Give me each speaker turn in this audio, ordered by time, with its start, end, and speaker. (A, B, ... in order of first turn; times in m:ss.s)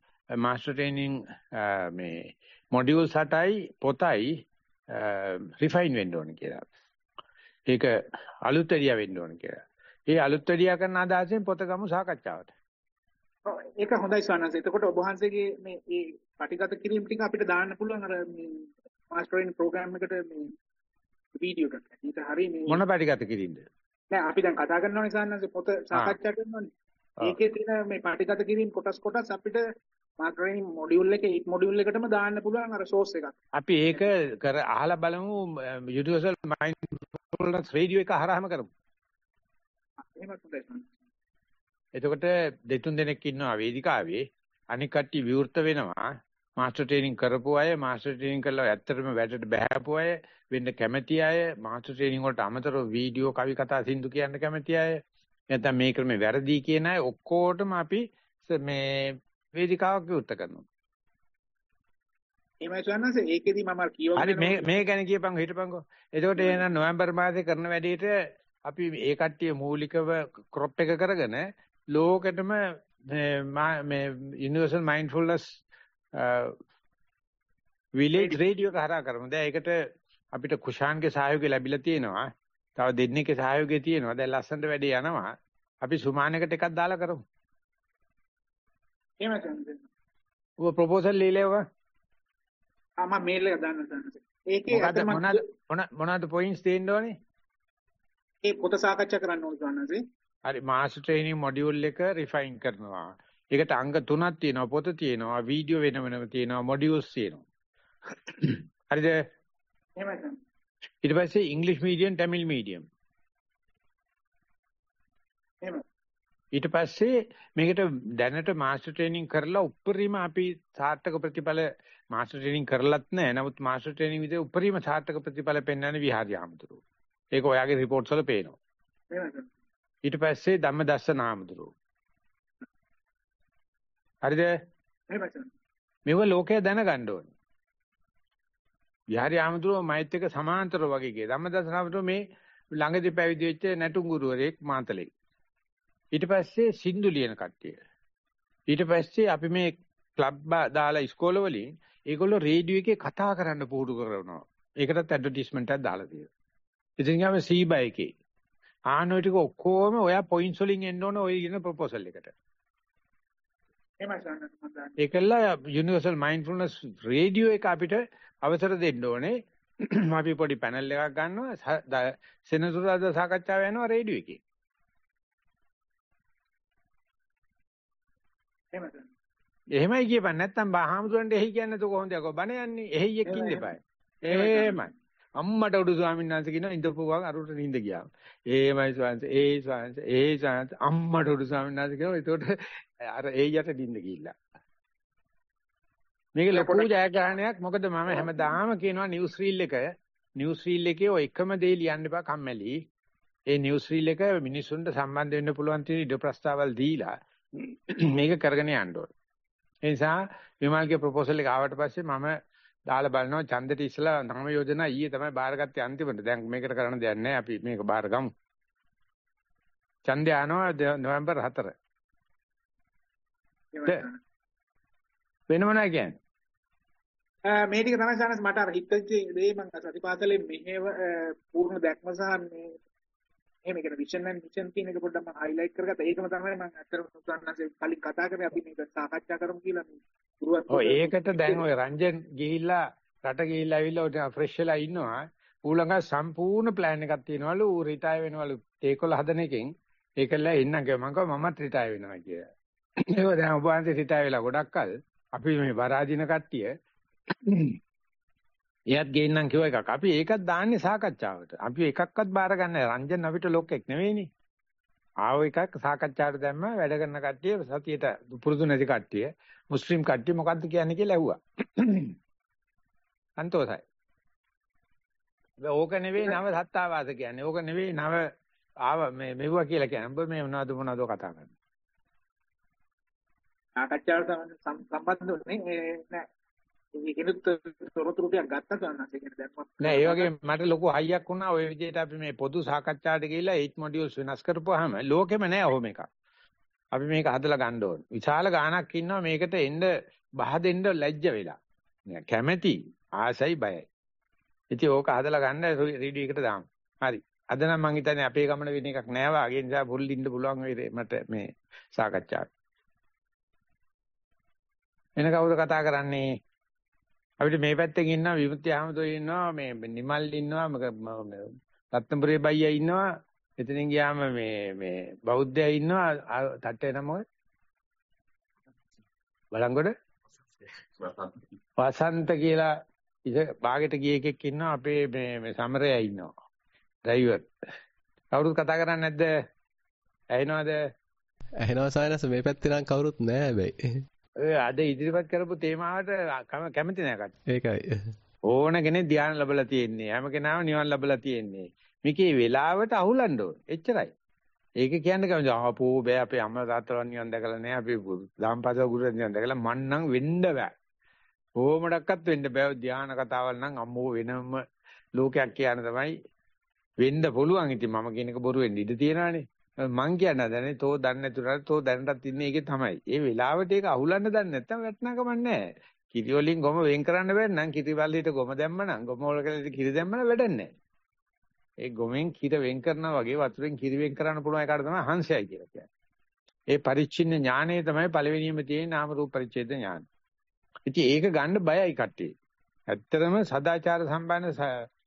0:00.4-0:04.3 A
0:04.9-0:06.6 A
0:07.7-0:12.5 A
0:13.4-0:20.5 B
0:21.4-0:22.8 B
0:22.7-0:23.6 A
0:24.1-0:26.7 B
0:27.2-0:29.6 B
0:30.2-0:33.3 B
0:33.5-0:38.7 A
0:40.0-0:40.9 B
0:41.9-0:46.0 A
0:46.6-0:55.0 A
0:55.5-1:00.6 A
1:02.6-1:04.8 B
1:04.2-1:15.6 A
1:06.4-1:06.6 B
1:16.1-1:16.6 A
1:18.0-1:19.8 A
1:20.3-1:27.2 A
1:29.2-1:29.8 B
1:30.6-1:31.6 A
1:33.0-1:35.4 B
1:34.7-1:37.1 A
1:38.4-1:40.0 B
1:40.4-1:47.4 A
1:48.3-1:49.2 A
1:50.0-1:50.4 B
1:51.0-1:52.8 A
1:56.5-2:06.8 A
2:07.3-2:08.6 A
2:09.1-2:09.5 B
2:10.0-2:11.7 A
2:14.2-2:14.5 A
2:15.1-2:15.5 B
2:16.0-2:17.3 A
2:19.1-2:22.2 A
2:22.7-2:25.1 A
2:26.1-2:27.8 A
2:28.7-2:36.3 A
2:37.0-2:38.1 A
2:38.9-2:42.3 A
2:44.0-2:45.0 B
2:45.0-2:54.4 A
2:58.7-2:59.1 B
2:59.7-3:14.3 A
3:03.2-3:03.7 B
3:04.3-3:04.8 B
3:16.4-3:19.9 A
3:16.5-3:16.9 B
3:18.1-3:18.5 B
3:20.4-3:22.8 A
3:23.5-3:29.1 A
3:29.8-3:32.3 A
3:32.9-3:38.3 A
3:40.0-3:41.7 A
3:43.7-3:44.2 B
3:45.5-3:46.1 A
3:47.4-3:52.7 B
3:53.6-4:01.6 B
4:00.7-4:12.5 A
4:13.0-4:16.7 A
4:17.3-4:17.8 A
4:18.9-4:24.3 A
4:25.2-4:32.1 A
4:33.4-4:33.8 A
4:35.6-4:38.3 A
4:38.8-4:41.5 A
4:43.8-4:46.3 B
4:46.9-4:50.3 B
4:49.8-4:56.1 A
4:56.9-4:59.9 A
5:00.4-5:01.5 A
5:02.1-5:03.8 A
5:04.7-5:12.5 A
5:15.2-5:16.2 A
5:17.4-5:23.0 A
5:23.6-5:27.2 A
5:29.5-5:29.9 A
5:31.8-5:32.7 A
5:33.2-5:36.3 A
5:37.0-5:37.5 A
5:38.3-5:39.3 A
5:40.3-5:40.8 A
5:41.6-5:44.0 C
5:44.4-5:47.3 A
5:47.5-5:48.2 C
5:48.4-5:54.1 A
5:54.8-6:00.7 A
6:01.6-6:04.6 A
6:05.2-6:06.1 A
6:07.0-6:15.6 A
6:16.1-6:20.7 A
6:21.8-6:25.9 A
6:26.7-6:30.0 A
6:30.9-6:32.3 A
6:32.9-6:34.8 A